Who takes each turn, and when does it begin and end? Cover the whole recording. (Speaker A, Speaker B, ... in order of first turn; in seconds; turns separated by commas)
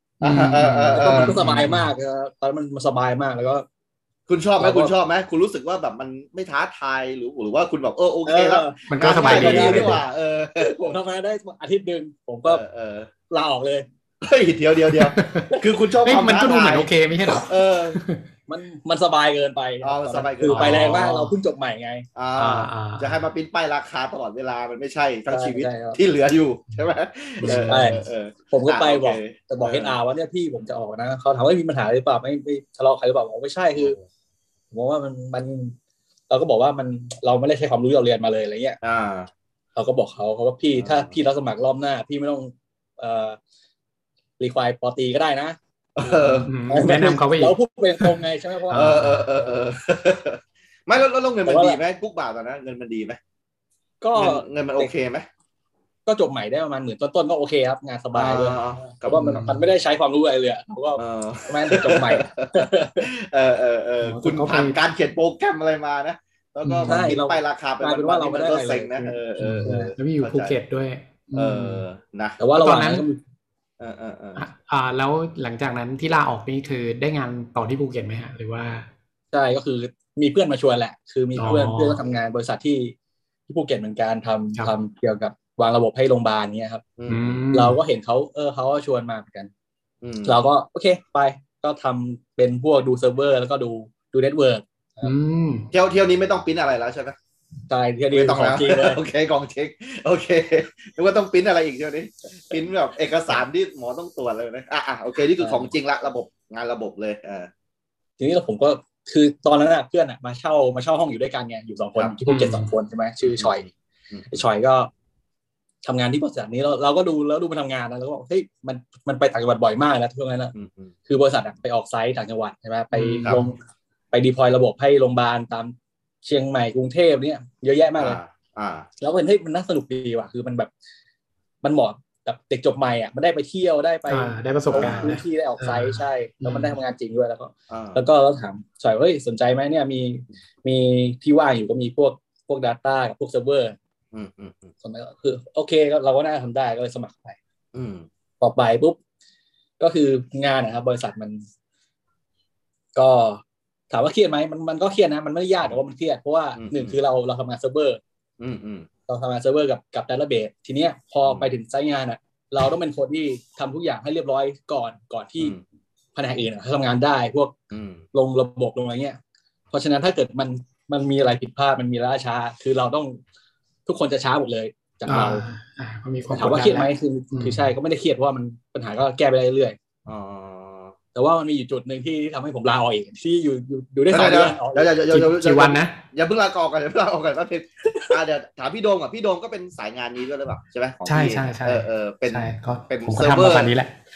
Speaker A: 0.2-1.9, Speaker B: 0.2-1.4, Speaker C: 0.9-3.6, Speaker B: 4.3-10.9, Speaker C: 4.6-4.9, Speaker C: 8.2-10.0, Speaker A: 8.9-10.0, Speaker C: 10.6-12.6, Speaker B: 12.4-13.1, Speaker C: 13.3-13.9, Speaker B: 14.2-18.0, Speaker A: 14.9-18.2, Speaker C: 18.5-22.1, Speaker B: 19.8-21.1, Speaker A: 20.4-21.4, Speaker B: 22.1-30.0, Speaker A: 22.4-23.2, Speaker C: 25.3-26.0, Speaker A: 27.4-28.0, Speaker C: 27.4-34.0, Speaker C: 34.7-35.8, Speaker C: 36.3-38.8, Speaker B: 38.8-39.3, Speaker C: 39.7-43.4, Speaker B: 40.8-41.1, Speaker C: 44.4-45.6, Speaker B: 46.0-46.5, Speaker C: 46.2-49.0, Speaker A: 46.4-48.2, Speaker A: 48.7-49.2, Speaker B: 48.7-53.2, Speaker C: 51.4-51.8, Speaker C: 54.0-54.9, Speaker B: 54.1-55.2, Speaker C: 56.0-63.1, Speaker B: 58.1-59.4, Speaker A: 59.1-59.6, Speaker B: 61.0-70.5, Speaker A: 64.0-64.8, Speaker A: 66.6-67.0, Speaker C: 66.8-69.9, Speaker A: 69.4-71.8, Speaker B: 71.3-72.4, Speaker C: 72.4-73.2, Speaker A: 72.5-73.0, Speaker B: 73.8-74.4, Speaker A: 74.3-78.9, Speaker C: 79.3-82.9, Speaker A: 81.3-82.0, Speaker C: 83.5-86.8, Speaker B: 87.0-87.4, Speaker A: 87.1-87.8, Speaker C: 87.5-89.5, Speaker B: 90.0-90.4, Speaker C: 90.2-95.1, Speaker A: 95.0-95.7, Speaker B: 95.7-97.2, Speaker C: 97.7-99.0, Speaker B: 98.1-107.5, Speaker C: 105.4-105.7, Speaker C: 108.2-113.7, Speaker A: 112.3-112.7, Speaker B: 113.2-114.4, Speaker C: 114.3-114.9, Speaker C: 115.8-120.5, Speaker B: 120.5-120.9, Speaker C: 121.1-123.6, Speaker A: 122.9-123.4, Speaker C: 124.1-128.2, Speaker B: 128.0-128.9, Speaker C: 129.0-130.7, Speaker C: 131.6-143.8, Speaker A: 134.1-136.7, Speaker B: 134.7-135.2, Speaker B: 137.7-138.0, Speaker B: 144.1-144.7, Speaker C: 144.8-147.4, Speaker B: 147.7-148.1, Speaker C: 148.4-149.0, Speaker C: 149.8-151.4, Speaker C: 152.9-158.0, Speaker B: 156.6-156.9, Speaker B: 158.4-158.9, Speaker C: 159.1-165.6, Speaker B: 161.2-161.5, Speaker C: 166.1-167.5, Speaker B: 167.7-168.0, Speaker C: 168.1-169.2, Speaker C: 169.7-173.2, Speaker C: 173.8-175.4, Speaker A: 175.1-177.7, Speaker C: 176.3-179.8, Speaker B: 180.1-180.9, Speaker C: 181.1-184.9, Speaker B: 184.1-193.7, Speaker A: 185.1-185.9, Speaker A: 191.1-193.9